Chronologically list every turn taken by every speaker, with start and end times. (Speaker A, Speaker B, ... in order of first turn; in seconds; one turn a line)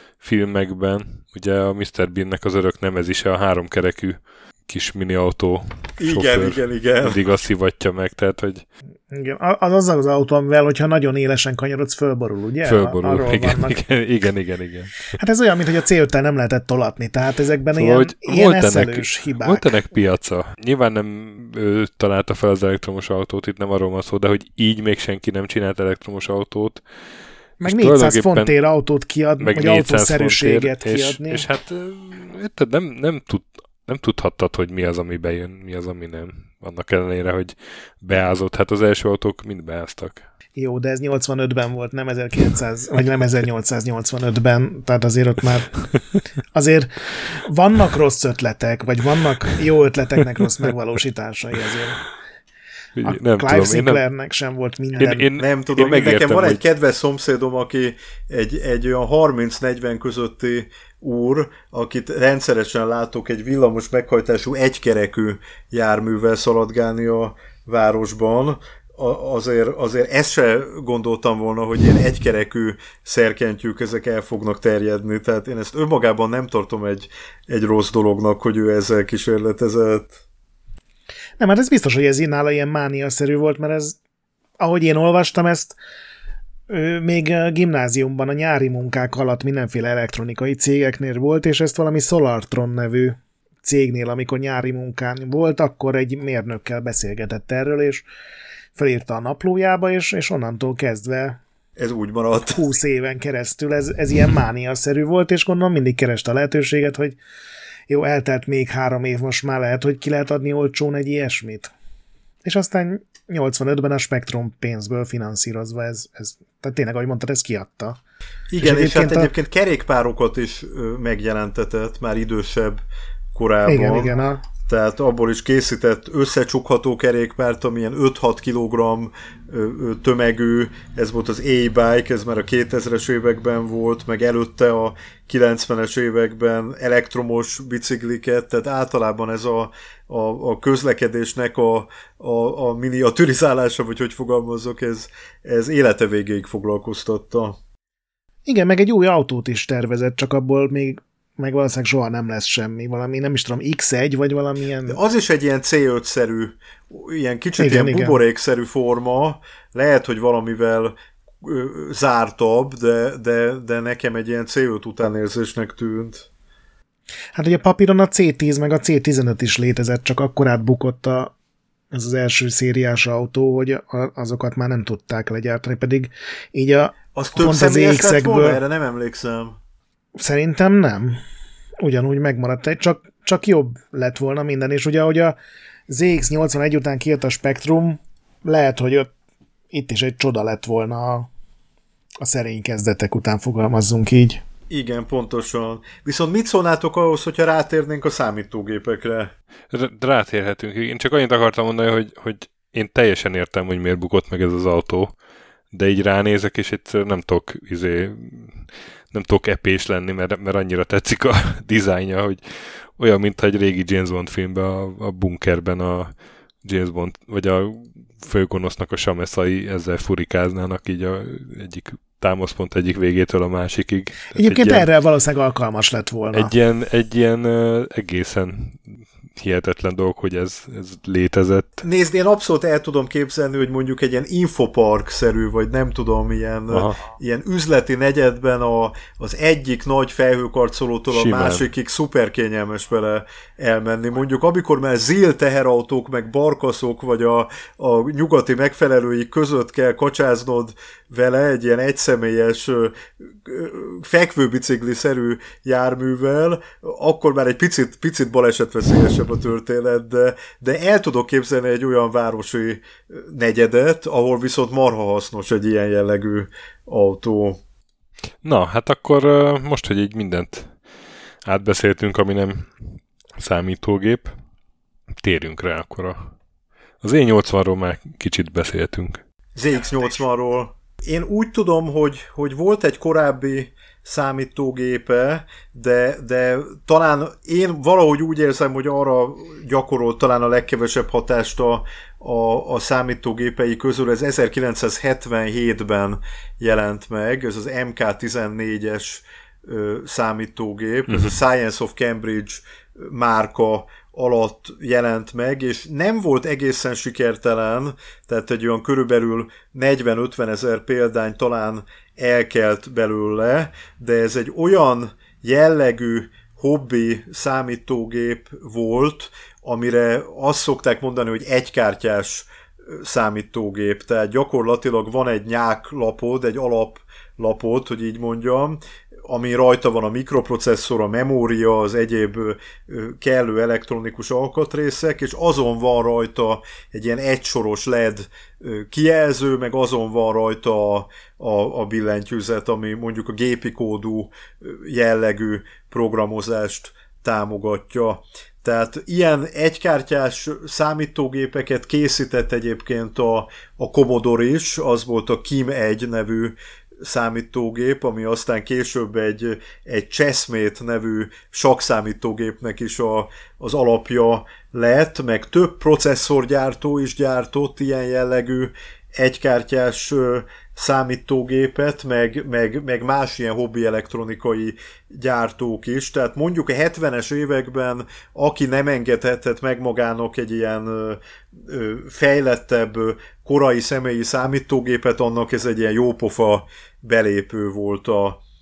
Speaker A: 0.2-8.7
Speaker B: 6.0-7.2
Speaker C: 9.1-13.8
Speaker A: 12.6-15.1
Speaker C: 15.1-19.7
Speaker A: 17.7-27.1
Speaker C: 27.6-31.4
Speaker A: 27.6-28.5
Speaker A: 29.4-40.2
Speaker C: 40.6-45.8
Speaker C: 46.5-52.0
Speaker A: 53.0-54.0
Speaker C: 53.0-55.3
Speaker A: 55.0-56.6
Speaker B: 55.4-80.2
Speaker C: 81.4-84.0
Speaker C: 84.6-85.8
Speaker C: 86.7-98.0
Speaker C: 98.8-101.4
Speaker B: 101.8-102.6
Speaker C: 102.5-107.2
Speaker C: 107.9-111.7
Speaker C: 112.4-118.0
Speaker B: 118.5-122.8
Speaker C: 118.6-119.3
Speaker B: 123.3-124.1
Speaker C: 123.7-124.4
Speaker B: 124.6-147.6
Speaker C: 148.5-155.0
Speaker B: 154.9-166.3
Speaker C: 157.6-158.2
Speaker C: 167.3-171.3
Speaker C: 171.9-178.6
Speaker B: 177.1-179.6
Speaker C: 180.2-181.2
Speaker C: 181.8-185.4
Speaker C: 185.9-189.1
Speaker C: 189.7-191.3
Speaker C: 192.2-194.4
Speaker B: 194.7-199.3
Speaker A: 199.7-205.1
Speaker A: 205.7-224.9
Speaker C: 224.3-226.5
Speaker A: 226.3-231.8
Speaker B: 231.8-267.6
Speaker A: 236.7-237.0
Speaker A: 241.1-241.7
Speaker A: 268.4-270.8
Speaker A: 271.4-274.3
Speaker A: 275.2-276.3
Speaker A: 277.0-279.2
Speaker B: 279.6-388.4
Speaker A: 301.1-301.4